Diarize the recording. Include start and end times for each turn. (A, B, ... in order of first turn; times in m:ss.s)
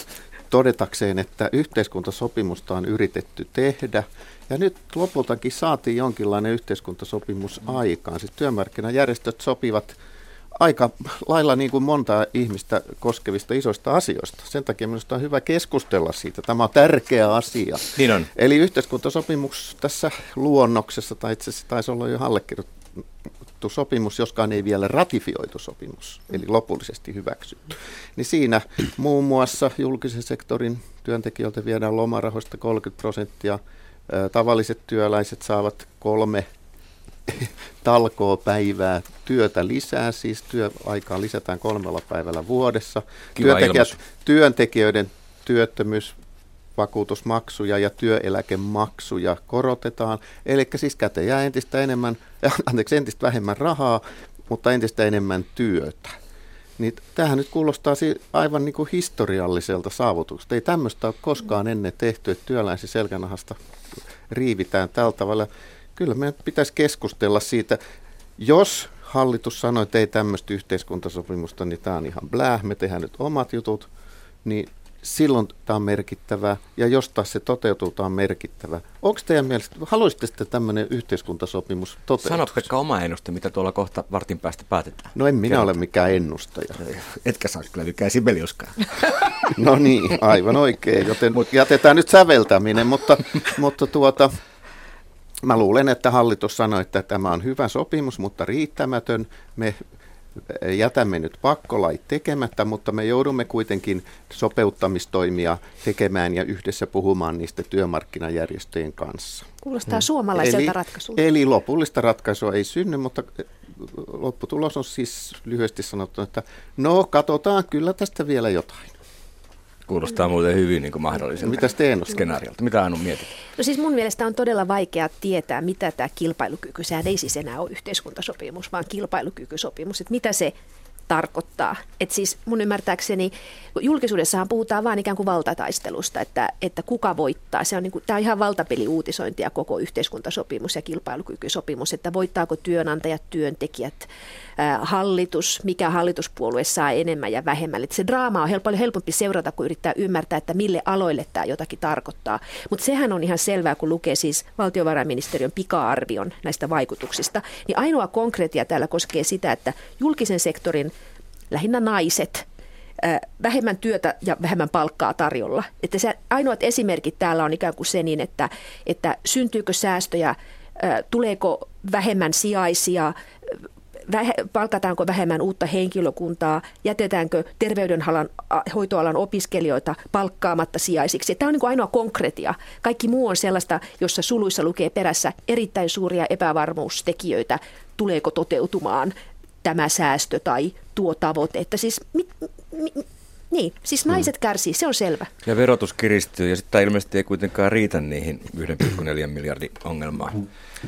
0:00.5-0:10.0 A
0:10.6-0:23.0 A
0:18.0-0:18.3 B
0:23.6-0:36.5 A
0:37.3-0:46.2 A
0:43.4-0:43.9 B
0:46.8-0:56.2 A
0:56.8-1:03.6 A
1:04.3-1:07.8 A
1:08.4-1:13.9 A
1:14.4-1:22.7 A
1:22.2-1:25.7 B
1:25.2-1:26.8 A
1:26.8-1:29.5 B
1:29.5-1:34.3 A
1:35.4-1:39.8 A
1:40.4-1:49.5 A
1:49.6-1:51.2 C
1:50.4-1:59.0 A
1:59.9-2:03.3 B
2:01.4-2:02.2 A
2:03.6-2:10.5 C
2:11.1-2:40.9 C
2:41.5-2:42.5 C
2:43.0-2:53.2 C
2:54.1-3:15.3 C
3:15.4-3:20.5 B